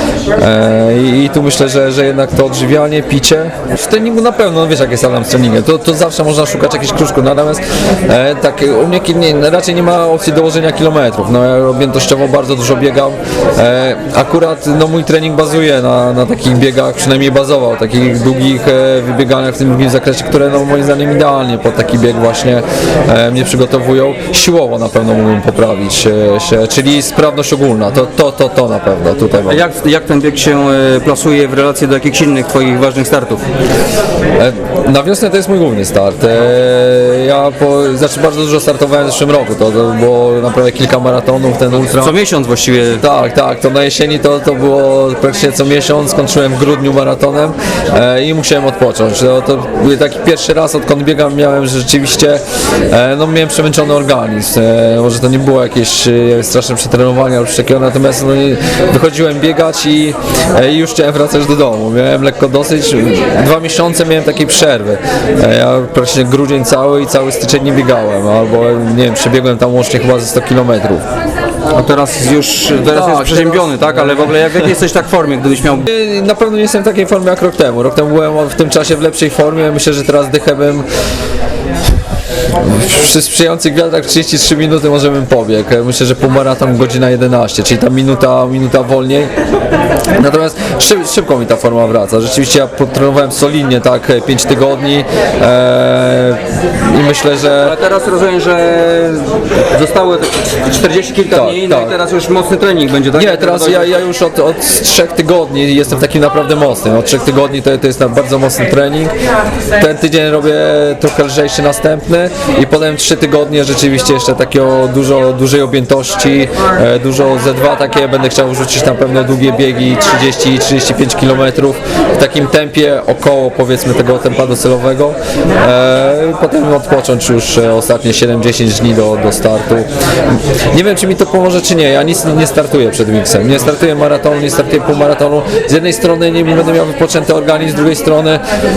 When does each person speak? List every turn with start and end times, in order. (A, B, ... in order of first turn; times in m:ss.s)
0:00.4-0:29.6 A
0:29.5-0:33.4 B
0:34.4-0:42.2 A
0:41.9-0:43.0 B
0:43.0-1:11.0 A
1:11.7-1:15.9 B
1:12.8-1:14.7 A
1:15.8-1:20.9 A
1:22.6-1:29.3 A
1:30.2-1:37.8 A
1:37.6-1:44.0 B
1:41.3-1:42.0 A
1:43.1-1:49.1 A
1:49.8-2:18.4 A